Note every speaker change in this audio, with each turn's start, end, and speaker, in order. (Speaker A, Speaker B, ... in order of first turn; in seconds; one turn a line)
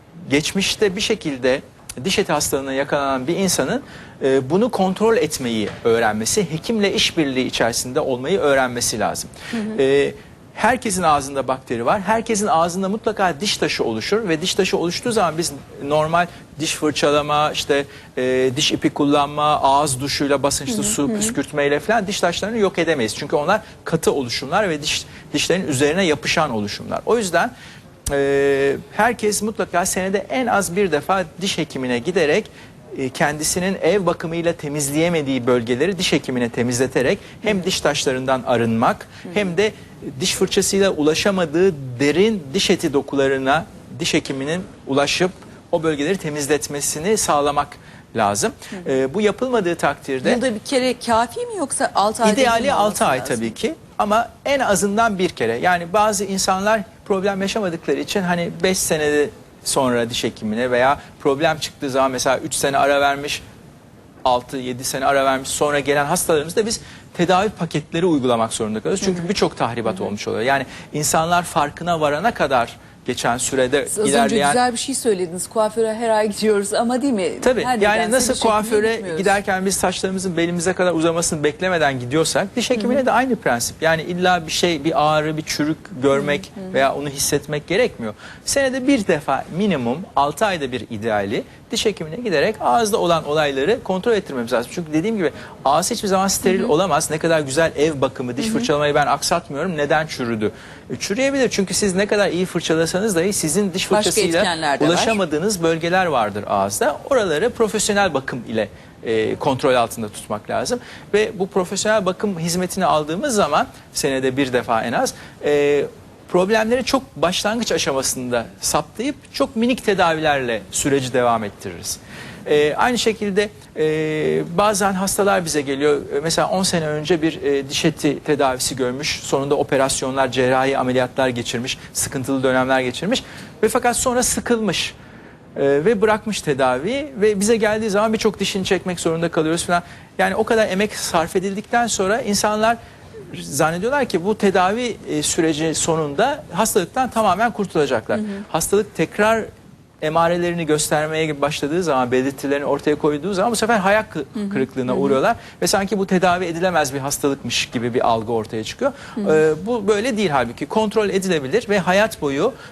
Speaker A: 0.3-27.5
Speaker A: 28.1-50.4
Speaker B: 50.2-53.5
Speaker A: 52.2-63.4
Speaker A: 64.2-74.6
Speaker B: 73.9-79.4
Speaker A: 77.4-134.9
Speaker B: 98.4-98.7
Speaker B: 103.9-105.2
Speaker A: 135.6-142.8
Speaker A: 143.3-149.4
Speaker A: 150.0-162.5